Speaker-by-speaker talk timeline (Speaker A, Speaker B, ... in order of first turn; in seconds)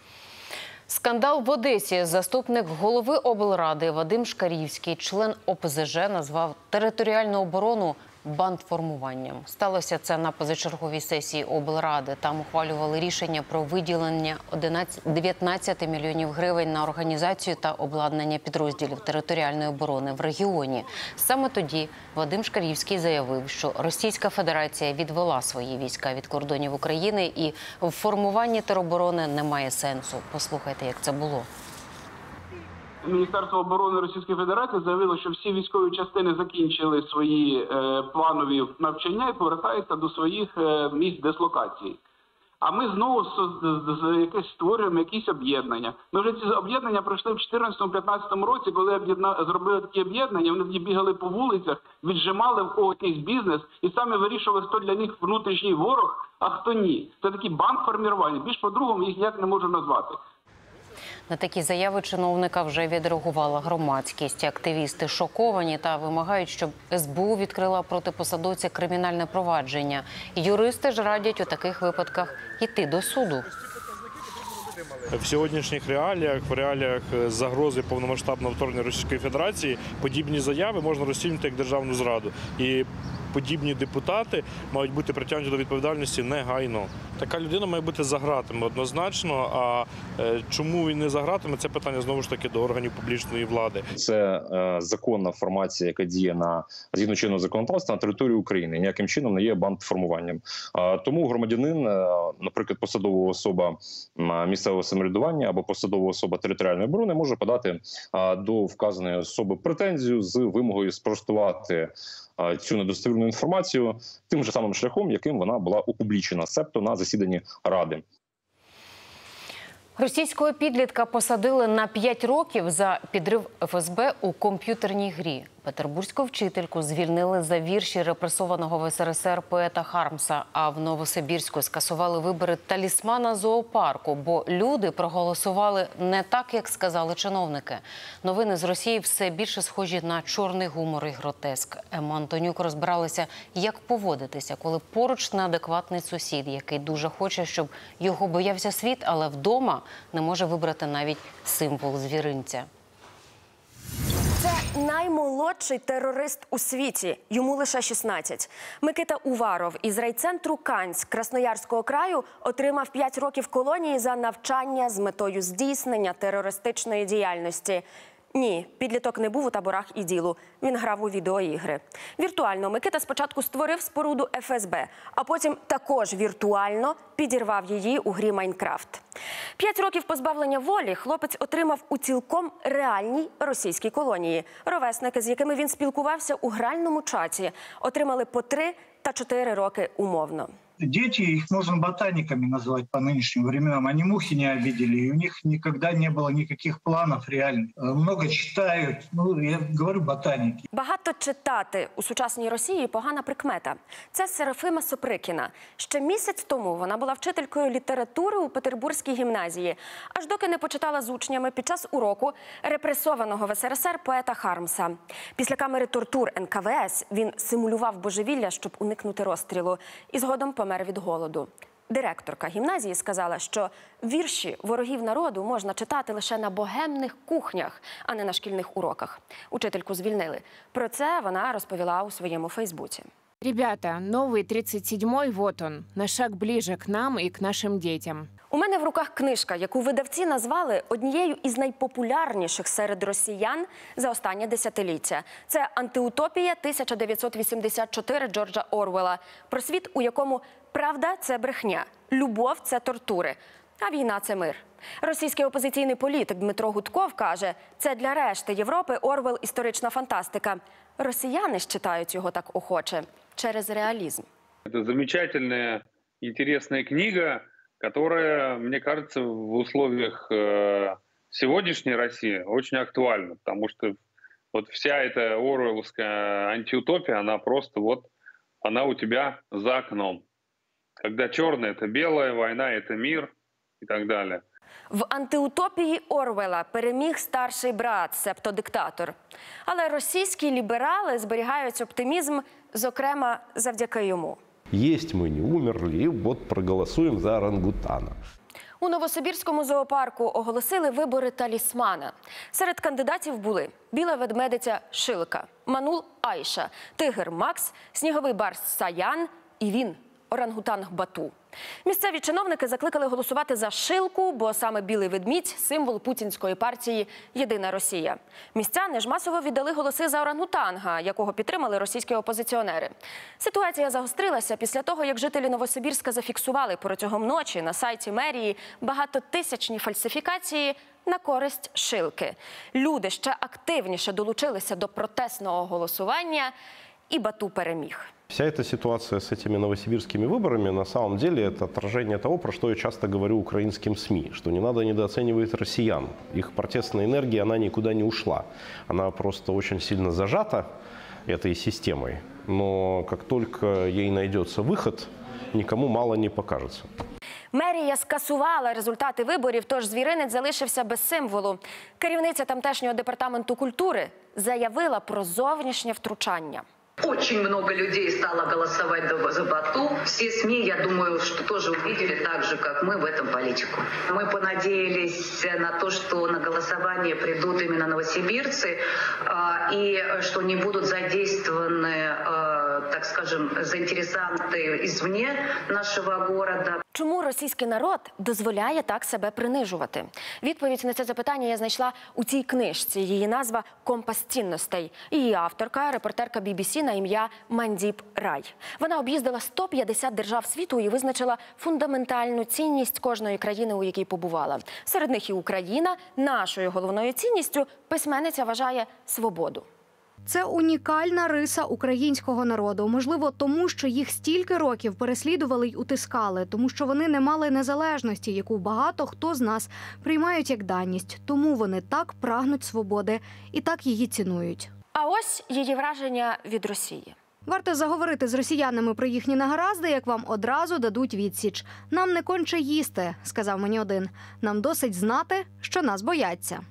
Speaker A: 0.9-31.5, 61.3-73.5, 120.0-152.7
Speaker B: 33.1-42.0, 42.6-60.2
Speaker C: 75.1-93.9
Speaker D: 93.9-118.0
Speaker E: 154.4-179.0, 179.6-190.5, 200.7-233.1, 238.5-264.2, 284.9-294.4, 298.8-311.3, 311.8-336.5, 337.1-338.1, 357.5-366.6, 386.9-409.6, 424.9-427.1
Speaker F: 190.8-200.6
Speaker G: 233.4-238.3
Speaker H: 264.7-274.0, 274.5-278.1, 278.6-280.2, 281.0-284.4
Speaker I: 294.7-298.1, 338.3-350.7, 351.2-356.9
Speaker J: 367.0-386.8
Speaker K: 410.2-424.7, 427.4-436.6